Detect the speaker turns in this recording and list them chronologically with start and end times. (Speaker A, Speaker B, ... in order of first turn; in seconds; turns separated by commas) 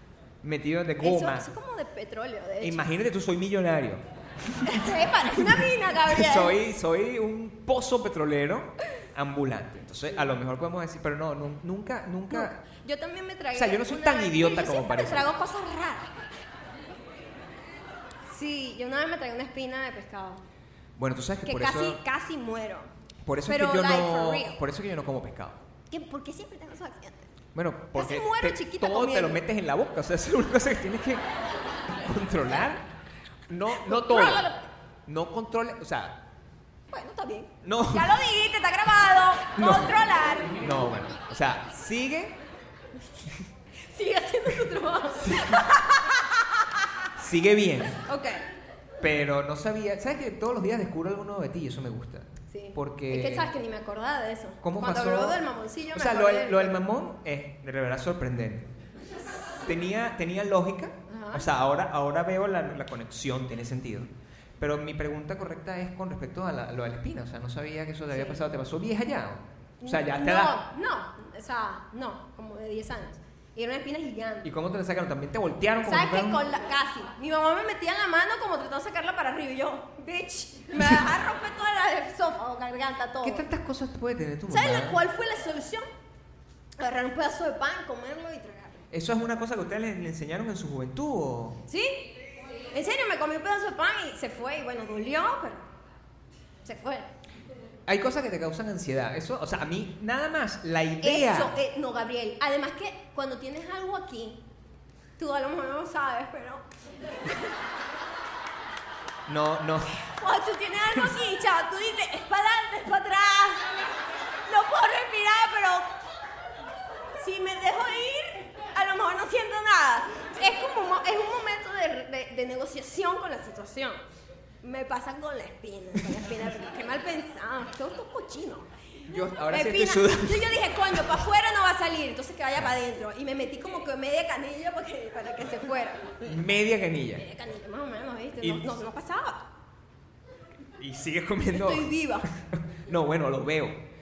Speaker A: 0.4-1.5, Speaker B: 1.0-2.9, Speaker A: 2.6-12.6, Speaker B: 4.6-6.6, Speaker B: 12.3-16.1, Speaker A: 13.5-15.3, Speaker B: 18.3-20.4, Speaker A: 21.0-22.0, Speaker B: 21.4-22.9, Speaker A: 23.2-25.6, Speaker B: 23.5-24.6, Speaker B: 25.9-27.3, Speaker A: 27.5-31.2, Speaker B: 27.9-29.4, Speaker A: 32.0-32.9, Speaker A: 33.5-34.5, Speaker B: 33.7-34.7, Speaker A: 35.1-36.2, Speaker B: 36.9-40.6, Speaker A: 37.6-38.1, Speaker A: 39.6-42.4, Speaker B: 43.8-46.6, Speaker A: 45.2-45.6, Speaker A: 47.2-48.0, Speaker B: 48.0-48.4, Speaker A: 49.0-53.5, Speaker B: 52.5-56.8, Speaker A: 54.6-55.4, Speaker A: 55.9-58.7, Speaker A: 59.6-64.1, Speaker B: 61.1-61.5, Speaker A: 64.6-70.6, Speaker B: 68.1-68.4, Speaker B: 69.8-74.5, Speaker A: 74.4-76.4, Speaker B: 75.8-83.5, Speaker A: 83.2-85.0, Speaker B: 84.5-85.9, Speaker B: 86.8-88.8, Speaker A: 88.9-91.6, Speaker B: 91.7-92.0, Speaker B: 92.7-95.7, Speaker B: 96.6-97.1, Speaker A: 97.9-101.5, Speaker B: 101.0-104.4, Speaker B: 105.2-106.6, Speaker A: 109.3-110.0, Speaker B: 110.0-113.7, Speaker B: 114.5-115.9, Speaker B: 117.2-124.0, Speaker B: 124.6-128.7, Speaker A: 129.1-131.0, Speaker B: 129.5-136.1, Speaker A: 136.2-137.2, Speaker B: 137.2-139.5, Speaker A: 138.4-138.7, Speaker A: 140.8-143.8, Speaker B: 141.5-142.3